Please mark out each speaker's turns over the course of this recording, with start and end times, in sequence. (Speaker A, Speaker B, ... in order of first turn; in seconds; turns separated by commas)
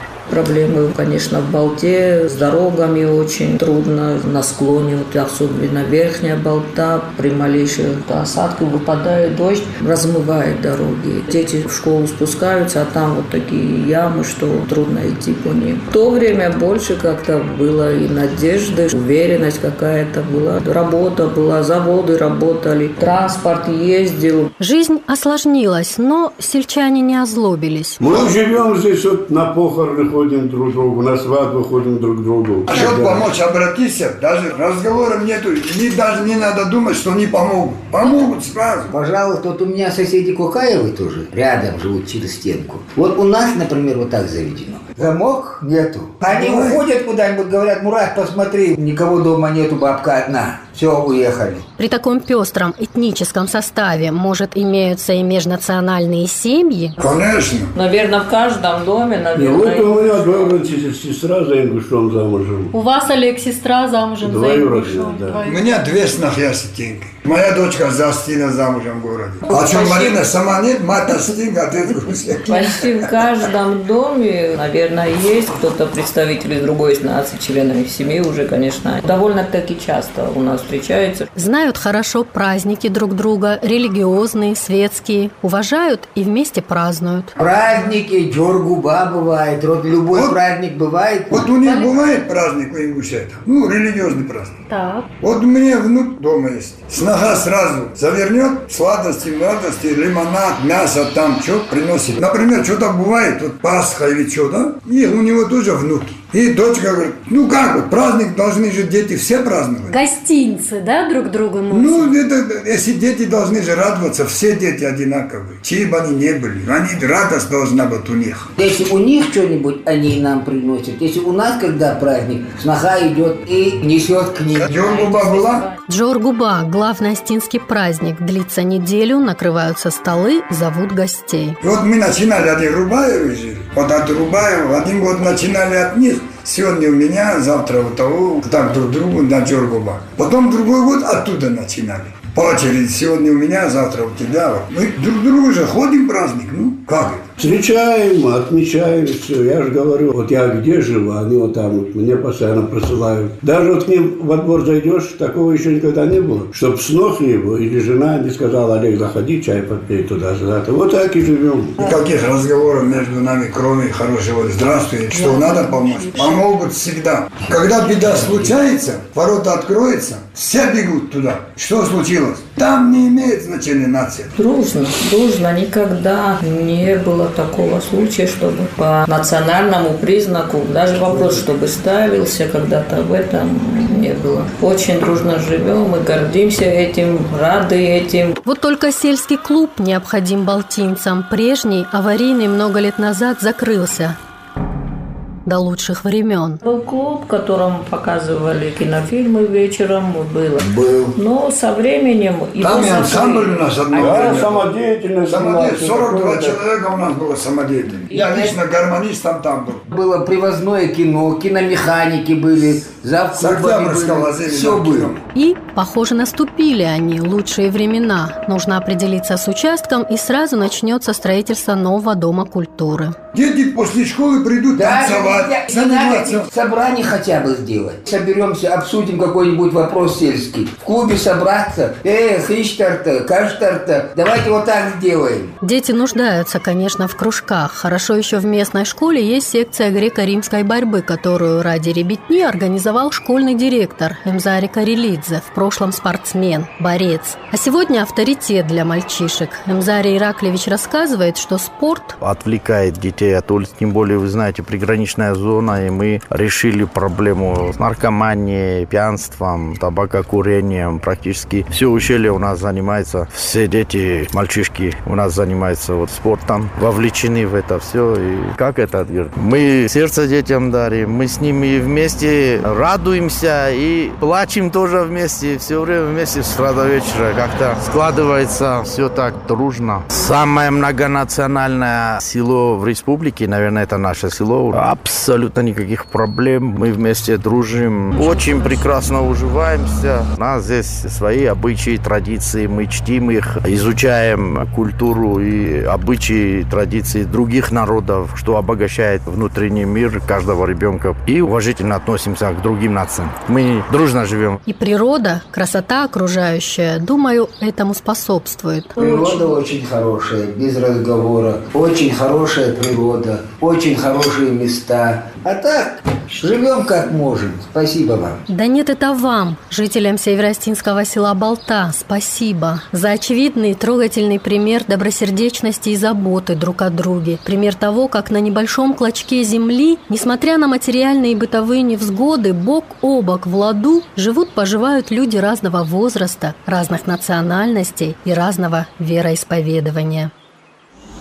Speaker A: 0.3-24.5, Speaker B: 24.6-28.0, Speaker C: 28.0-33.3, Speaker D: 32.7-38.9, Speaker E: 38.9-51.6, Speaker D: 46.2-46.8, Speaker B: 51.8-57.0, Speaker D: 57.0-57.7, Speaker A: 57.8-60.5, Speaker C: 59.3-62.7, Speaker B: 62.7-65.8, Speaker C: 64.2-65.4, Speaker D: 65.4-72.6, Speaker A: 69.5-70.2, Speaker A: 72.5-81.3, Speaker B: 81.3-87.3, Speaker E: 87.4-91.5, Speaker D: 90.1-90.4, Speaker D: 91.3-94.5, Speaker B: 91.6-92.0, Speaker B: 94.7-95.0, Speaker D: 95.2-110.0, Speaker B: 109.9-112.1, Speaker D: 111.7-118.5, Speaker E: 118.6-124.7, Speaker D: 124.6-125.7, Speaker A: 124.7-125.8, Speaker B: 125.9-131.6, Speaker D: 131.6-147.2, Speaker C: 147.4-161.8, Speaker D: 161.8-174.3, Speaker B: 165.1-166.3, Speaker E: 168.1-168.6, Speaker A: 174.3-188.3, Speaker B: 188.4-194.2, Speaker B: 195.4-196.6, Speaker A: 196.6-204.6, Speaker E: 200.6-201.2, Speaker D: 202.6-204.6, Speaker C: 203.9-206.6, Speaker D: 205.3-209.8, Speaker E: 208.2-208.6, Speaker E: 209.9-215.2, Speaker D: 213.4-215.2, Speaker B: 215.3-223.2, Speaker D: 223.3-226.5, Speaker E: 224.7-235.5, Speaker B: 235.6-252.2, Speaker F: 252.2-304.6, Speaker B: 304.6-309.4, Speaker E: 309.0-318.4, Speaker B: 318.5-340.3